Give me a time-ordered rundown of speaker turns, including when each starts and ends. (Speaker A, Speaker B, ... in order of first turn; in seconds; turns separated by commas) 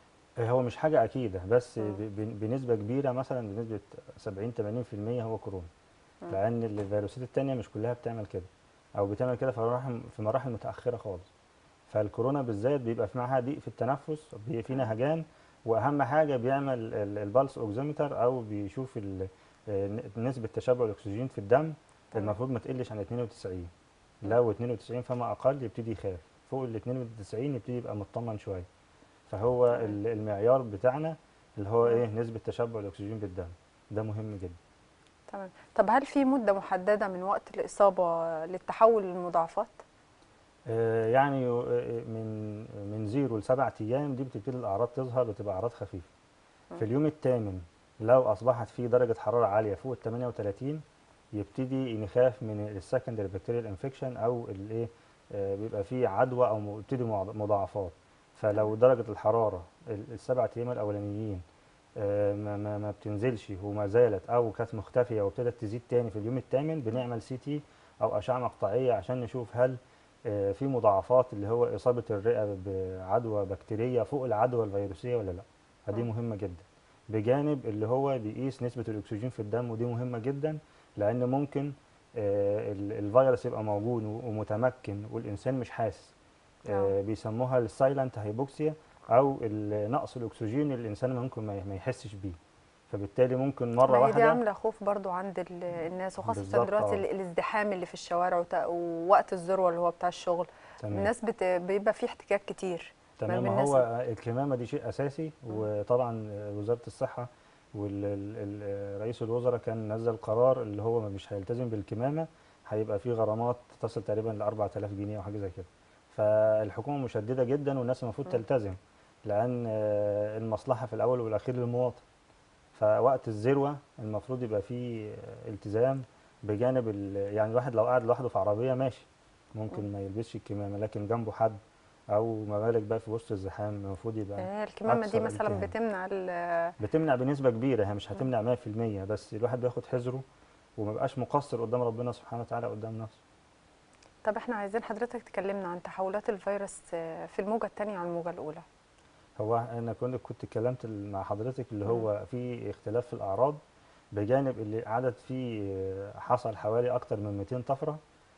Speaker A: 0.4-5.7, Speaker A: 6.3-11.3, Speaker A: 11.9-23.7, Speaker A: 24.2-28.7, Speaker A: 29.3-34.6, Speaker B: 35.3-39.8, Speaker A: 40.7-46.0, Speaker A: 46.8-50.8, Speaker A: 51.4-61.4, Speaker A: 62.0-86.1, Speaker B: 86.7-87.0, Speaker A: 86.7-92.4, Speaker A: 92.9-94.4, Speaker B: 93.8-103.8, Speaker A: 96.2-97.0, Speaker A: 100.8-101.1, Speaker A: 103.2-122.0, Speaker A: 122.8-131.6, Speaker A: 132.1-135.7, Speaker B: 134.4-136.7, Speaker A: 136.8-140.2, Speaker A: 140.8-143.2, Speaker B: 144.2-148.6, Speaker A: 149.4-153.6, Speaker A: 154.2-158.0